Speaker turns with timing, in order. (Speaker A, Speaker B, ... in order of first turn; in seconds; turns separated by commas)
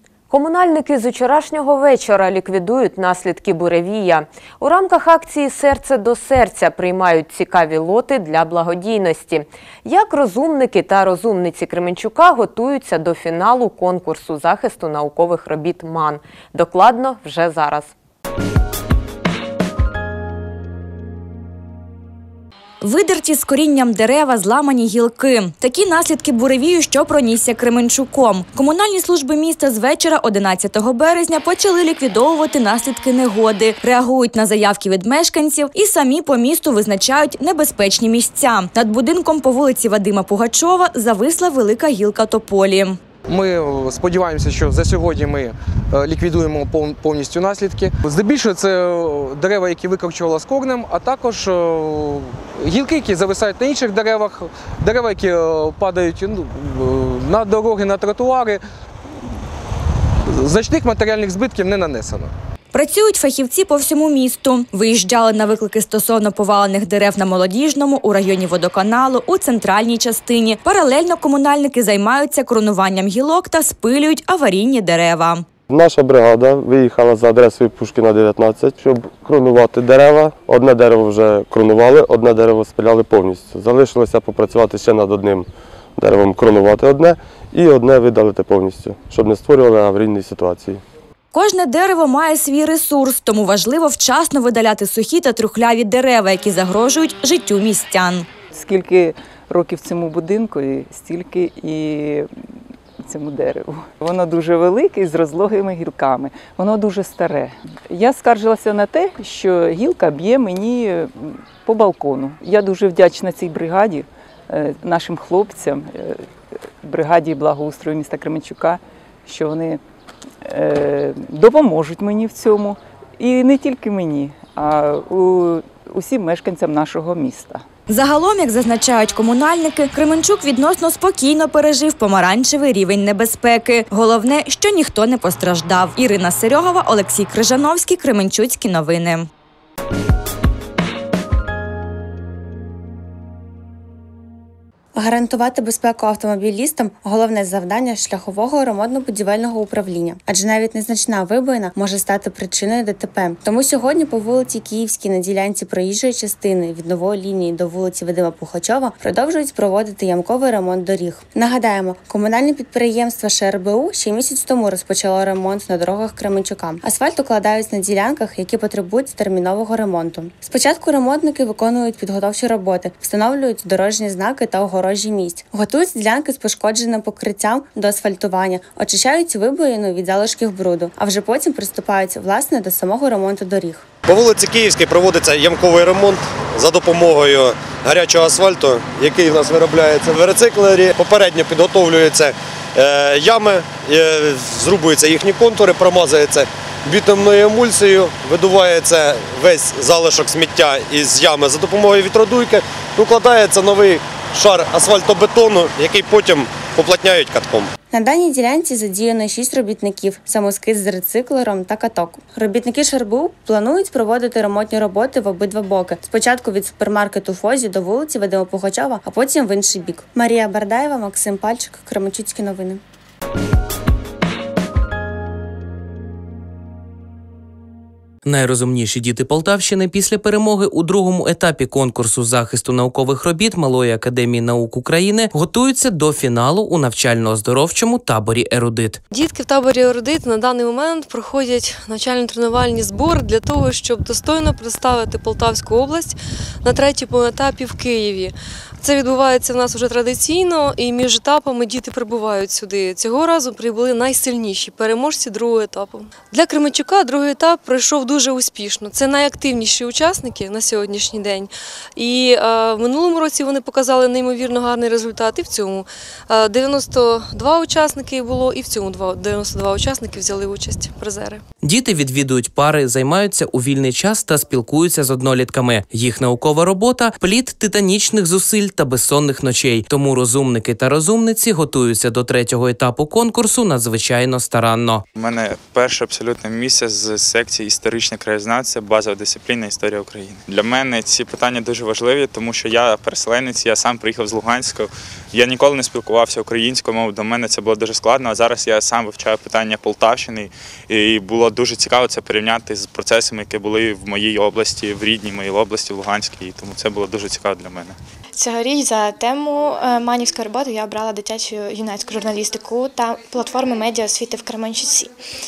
Speaker A: 0.3-17.9, Speaker B: 22.8-43.0, Speaker C: 43.3-58.6, Speaker C: 60.3-62.3, Speaker B: 62.7-75.5, Speaker D: 75.7-90.8, Speaker B: 91.3-98.3, Speaker E: 98.5-102.3, Speaker E: 103.0-116.2, Speaker E: 116.8-119.8, Speaker E: 120.5-127.6, Speaker B: 127.9-139.3, Speaker F: 144.9-183.8, Speaker G: 184.1-207.7, Speaker F: 207.9-222.8, Speaker H: 228.2-239.0, Speaker I: 239.1-271.4, Speaker H: 271.6-285.1, Speaker J: 285.1-308.0, Speaker K: 308.4-315.1